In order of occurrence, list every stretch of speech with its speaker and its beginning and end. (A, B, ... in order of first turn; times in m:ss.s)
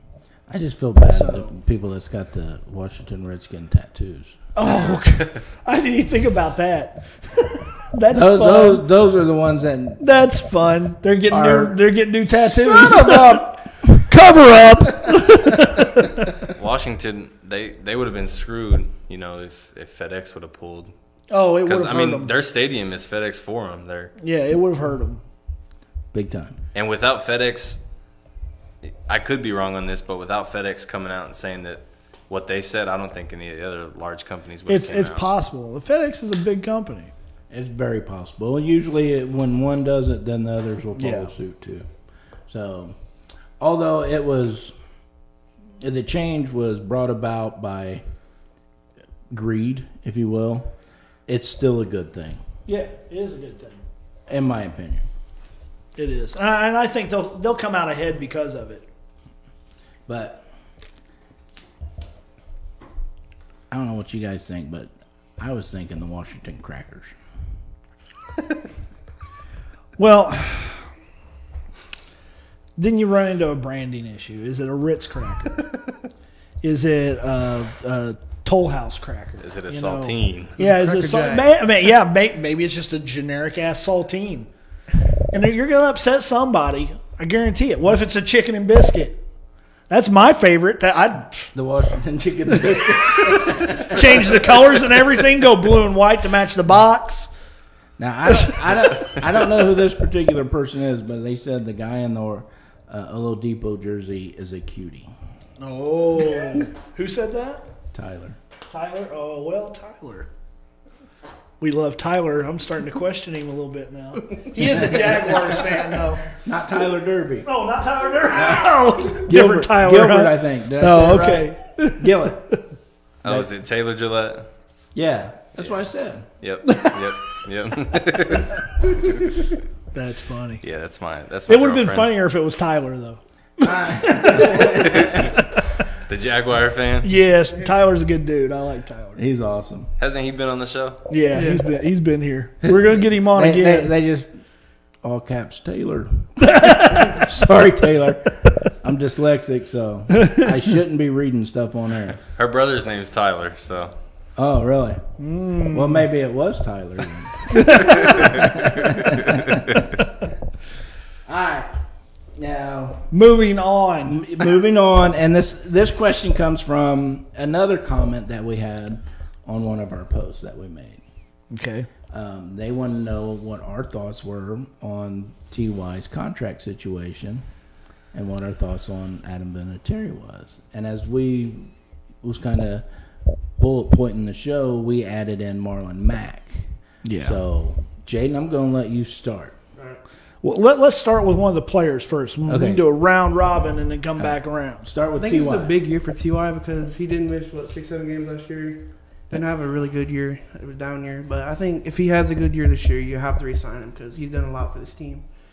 0:00.5-0:04.4 A
0:01.1-0:01.5 B
0:04.5-0:08.9 B
0:08.1-0:10.0 A
0:10.0-0:16.3 B
0:11.3-0:11.8 A
0:12.4-0:13.4 A
0:16.4-0:20.9 C
0:21.3-0:22.3 B
0:21.6-0:24.1 C
0:24.2-0:25.2 B
0:26.1-0:26.6 A
0:26.7-0:27.8 C
0:28.8-0:35.2 C
0:34.7-0:37.1 B
0:37.5-0:41.9 A
0:41.0-0:41.3 B
0:42.5-0:42.9 A
0:43.6-0:44.7 A
0:45.8-0:48.0 A
0:49.3-0:50.7 A
0:51.3-0:52.4 A
0:52.7-0:53.8 B
0:54.3-0:55.1 A
0:56.0-0:58.9 B
1:00.1-1:00.4 A
1:03.7-1:07.1 A
1:10.0-1:10.9 B
1:12.8-1:15.6 B
1:16.6-1:24.5 B
1:19.4-1:20.5 C
1:20.6-1:21.5 D
1:25.3-1:29.2 B
1:29.9-1:31.5 B
1:31.5-1:34.6 A
1:33.2-1:37.3 B
1:38.0-1:45.1 A
1:45.6-1:47.6 B
1:47.9-1:48.4 A
1:48.7-1:50.3 B
1:51.6-1:56.2 B
1:54.7-1:57.5 A
1:57.4-2:02.6 B
1:58.3-2:02.4 A
2:03.2-2:04.5 C
2:04.9-2:06.3 A
2:06.4-2:09.5 C
2:06.7-2:06.9 B
2:09.9-2:10.6 B
2:10.6-2:12.1 C
2:11.5-2:15.6 B
2:13.6-2:15.4 A
2:14.7-2:15.4 C
2:15.9-2:17.1 C
2:17.0-2:19.2 B
2:19.2-2:19.9 A
2:20.0-2:21.0 C
2:21.1-2:23.9 B
2:21.3-2:21.6 D
2:22.6-2:24.4 A
2:25.0-2:32.2 A
2:26.5-2:27.2 B
2:30.2-2:30.4 B
2:32.4-2:33.9 C
2:34.4-2:35.0 A
2:35.2-2:36.1 B
2:35.7-2:39.8 A
2:37.5-2:38.5 B
2:41.2-2:41.7 A
2:42.4-2:43.1 A
2:43.1-2:44.2 B
2:44.0-2:51.0 A
2:51.5-2:51.9 B
2:52.1-2:57.4 A
2:58.1-3:01.7 A
3:02.2-3:02.8 A
3:03.6-3:06.6 A
3:07.0-3:07.4 B
3:07.2-3:09.6 A
3:10.4-3:14.9 B
3:12.5-3:12.9 A
3:14.8-3:15.7 A
3:15.2-3:25.2 D